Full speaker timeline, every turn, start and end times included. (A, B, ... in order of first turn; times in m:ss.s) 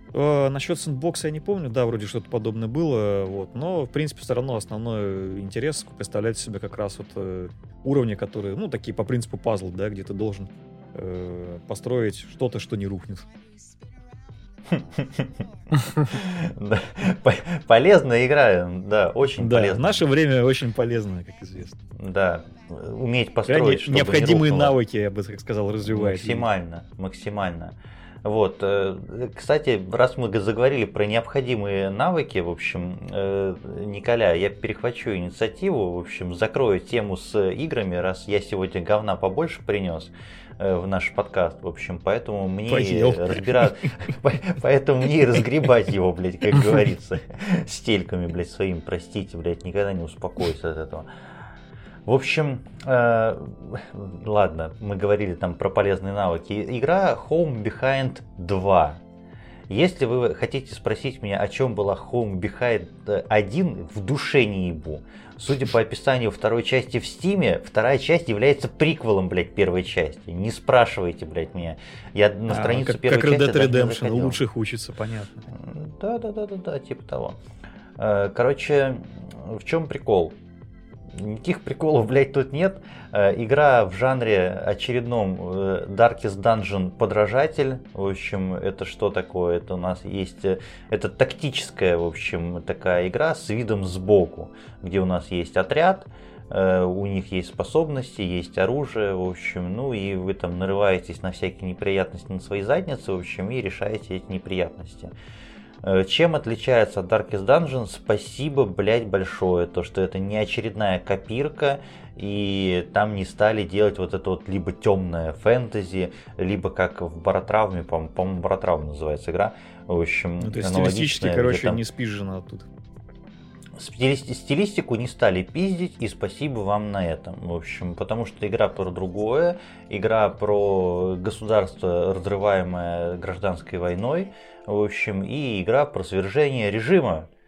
0:00.1-0:13.3 A
0:14.7-0:20.0 B
0:19.4-0:21.8 A
0:22.0-0:24.8 B
0:23.4-0:26.5 A
0:25.8-0:51.1 B
0:42.7-0:43.8 A
0:52.0-0:59.0 B
0:59.7-1:14.4 B
1:12.5-1:15.4 A
1:15.5-1:17.4 B
1:18.0-1:20.4 B
1:21.1-1:45.1 B
1:45.8-2:01.8 B
2:00.4-2:02.7 A
2:03.8-2:17.3 B